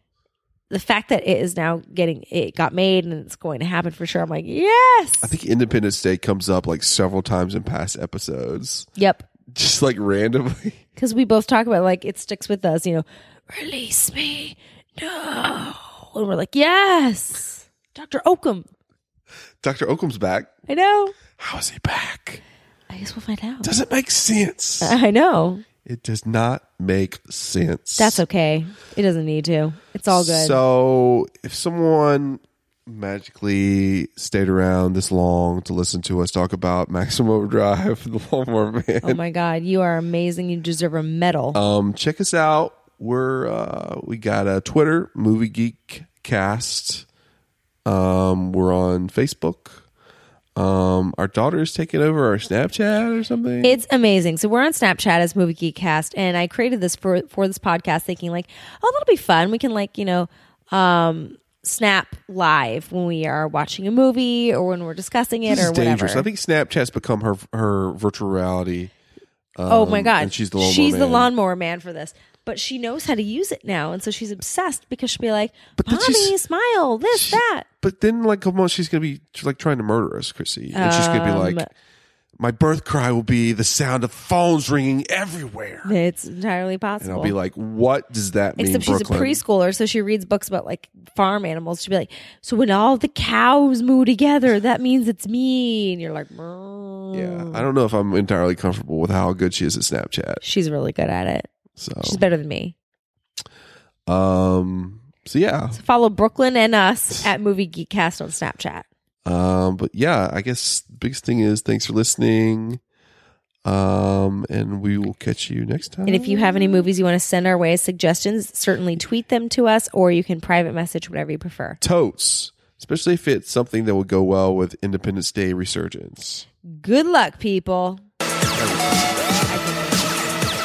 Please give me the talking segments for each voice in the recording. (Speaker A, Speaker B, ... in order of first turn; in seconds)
Speaker A: 0.7-5.3, 9.0-9.3, 10.9-18.7, 20.7-21.1, 22.9-23.7, 24.8-25.6, 28.0-30.6, 39.0-41.6, 53.6-66.3, 69.7-77.7, 80.7-81.7, 85.8-87.3, 88.6-97.7, 100.4-101.5, 102.0-102.7, 105.7-108.9, 116.0-121.8, 126.7-128.0, 129.5-130.4
Speaker B: 5.2-8.9, 9.5-10.8, 19.6-20.5, 21.3-22.4, 23.6-24.9, 25.8-28.2, 30.1-39.2, 41.5-47.0, 47.9-49.8, 50.5-53.8, 65.5-68.9, 69.5-71.3, 75.8-76.3, 77.1-81.6, 82.4-85.9, 87.0-89.4, 97.1-100.4, 101.8-102.2, 104.1-105.8, 109.2-112.8, 113.6-116.8, 121.8-126.5, 128.5-129.1